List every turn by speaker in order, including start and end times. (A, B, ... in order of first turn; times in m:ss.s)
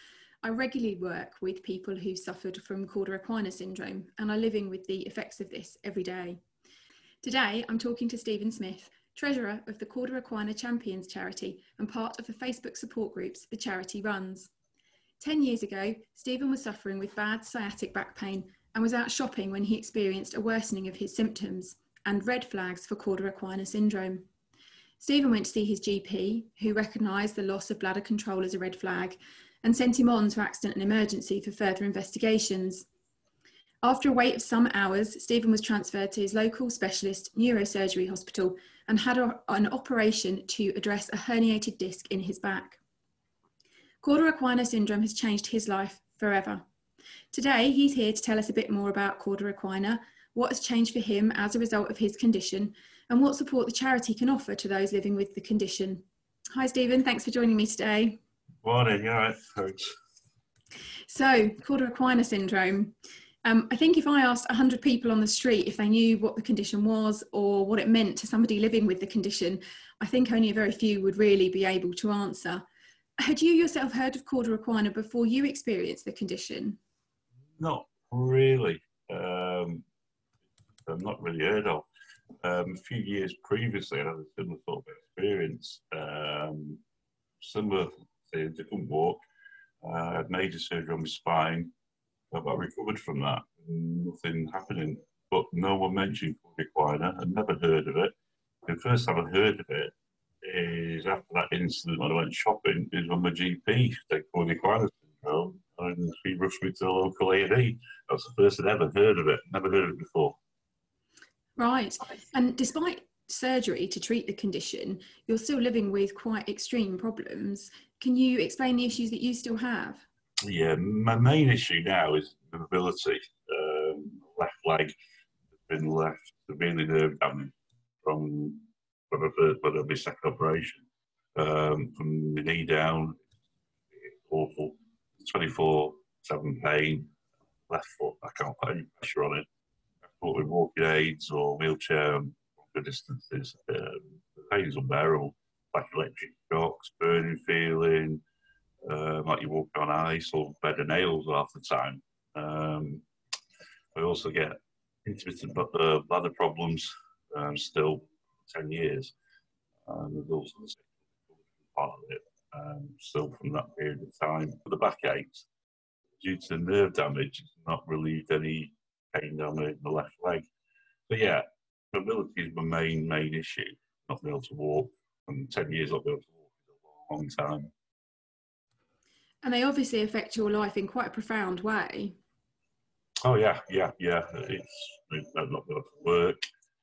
0:00.4-0:06.4 A
0:07.2-0:14.5 A
0:15.2-0:24.2 A
0:25.0-0:32.9 A
0:33.8-0:42.8 A
0:44.0-0:46.6 A
0:47.3-0:58.2 A
0:58.6-0:59.8 B
1:01.1-1:12.6 A
1:13.2-1:16.8 A
1:17.6-1:19.8 B
1:20.8-1:21.8 B
1:22.4-1:26.8 B
1:27.4-1:29.2 B
1:29.8-1:31.7 B
1:32.3-1:38.1 B
1:38.6-1:50.4 B
1:51.6-2:00.0 A
2:00.4-2:04.9 B
2:05.6-2:13.2 B
2:14.0-2:17.1 B
2:17.7-2:19.4 B
2:20.1-2:28.2 B
2:28.8-2:33.0 B
2:33.9-2:39.1 B
2:39.8-2:45.4 B
2:46.2-2:50.4 B
2:51.1-2:57.7 B
2:59.4-3:02.2 A
3:03.2-3:06.4 B